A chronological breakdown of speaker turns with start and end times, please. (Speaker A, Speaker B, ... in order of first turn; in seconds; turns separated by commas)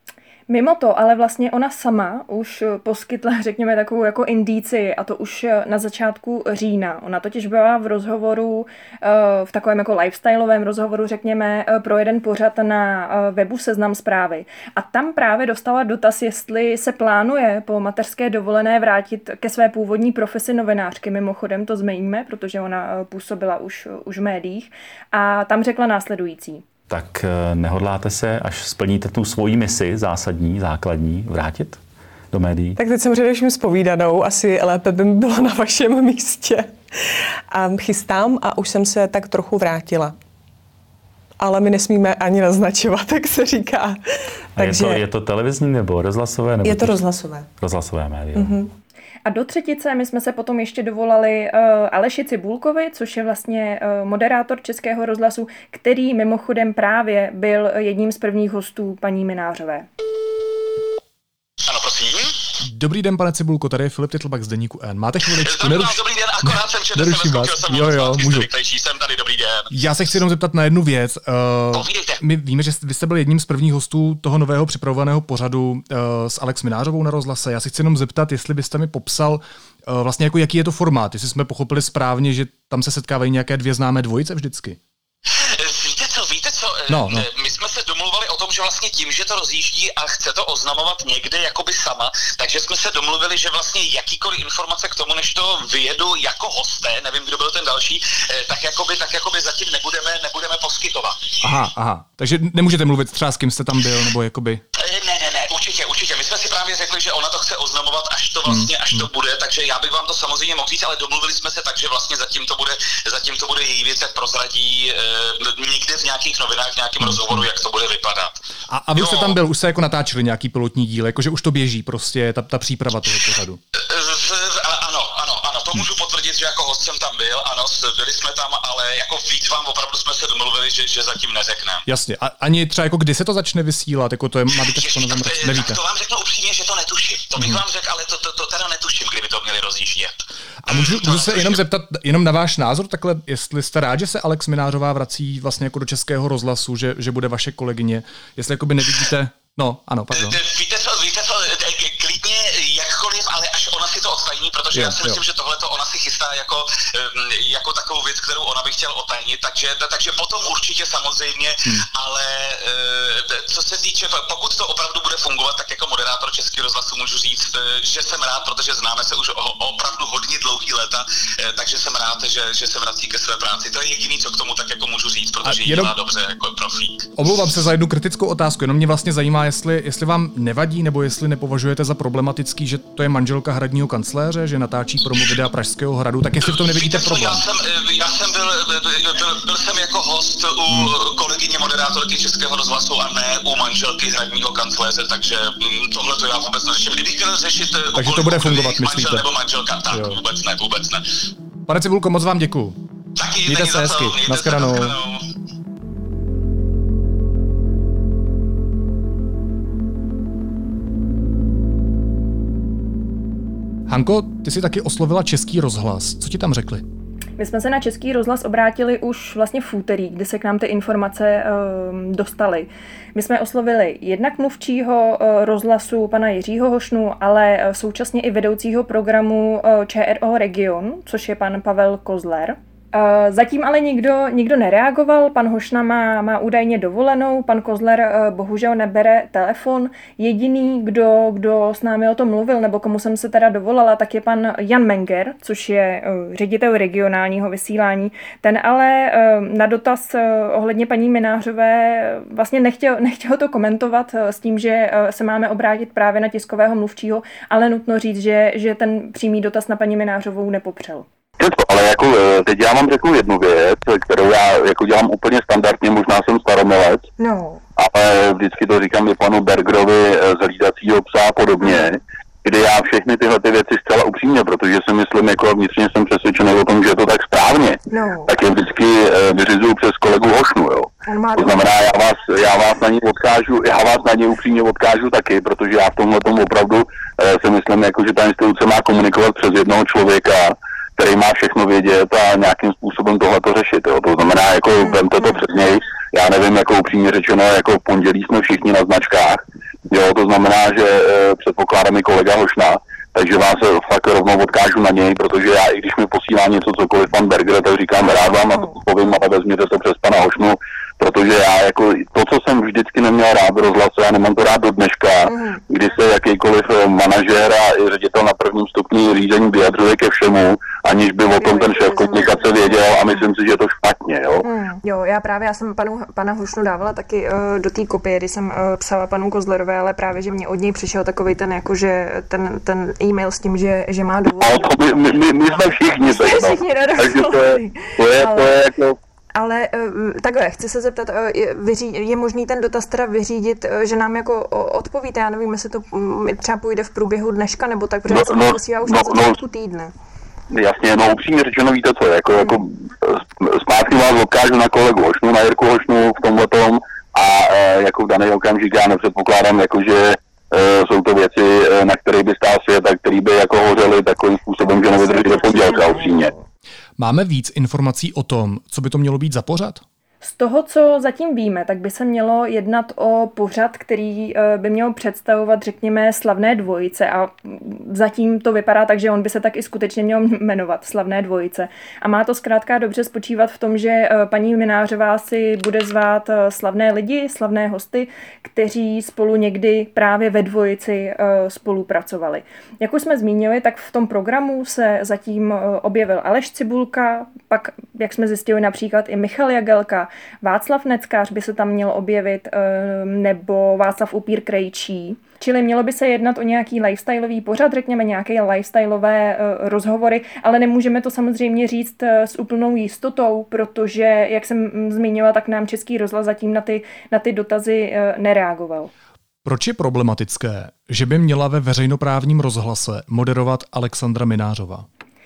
Speaker A: 0.5-26.6, Speaker B: 26.9-31.8, Speaker B: 32.3-32.8, Speaker C: 32.8-36.7, Speaker C: 37.5-40.1, Speaker C: 41.4-44.0, Speaker C: 44.5-45.0, Speaker B: 44.6-48.6, Speaker C: 46.6-47.5, Speaker C: 48.4-48.6, Speaker A: 49.2-59.9, Speaker D: 61.6-62.4, Speaker E: 62.6-68.5, Speaker D: 65.2-69.7, Speaker E: 69.7-84.8, Speaker D: 71.7-72.2, Speaker D: 85.3-101.4, Speaker E: 86.9-87.2, Speaker E: 101.4-104.6, Speaker D: 104.8-118.4, Speaker E: 108.5-109.1, Speaker E: 117.0-117.5, Speaker E: 118.7-123.6, Speaker D: 118.9-119.4, Speaker D: 123.7-131.8, Speaker E: 131.8-135.8, Speaker D: 134.5-141.6, Speaker E: 140.6-150.4, Speaker D: 150.1-177.1, Speaker E: 154.7-155.2, Speaker E: 175.4-175.9, Speaker E: 177.2-187.4, Speaker D: 186.4-201.0, Speaker E: 190.7-190.9, Speaker E: 197.9-199.2, Speaker E: 199.9-200.2, Speaker E: 201.7-202.8, Speaker D: 203.2-205.2, Speaker E: 203.4-204.9, Speaker E: 213.9-216.8, Speaker A: 217.4-261.1, Speaker F: 261.4-267.1, Speaker A: 267.2-267.6, Speaker F: 267.8-324.4, Speaker A: 271.6-271.9, Speaker A: 277.9-278.4, Speaker A: 281.0-281.7, Speaker A: 294.8-295.4, Speaker A: 308.5-308.8, Speaker A: 315.2-315.6, Speaker A: 321.3-323.3, Speaker A: 324.4-334.8, Speaker F: 334.4-338.9, Speaker A: 336.0-338.7, Speaker A: 339.3-349.9, Speaker F: 348.1-349.4, Speaker F: 350.5-366.3, Speaker A: 352.3-352.6, Speaker A: 364.8-366.4, Speaker E: 367.0-369.8, Speaker A: 370.2-418.9, Speaker E: 419.4-424.9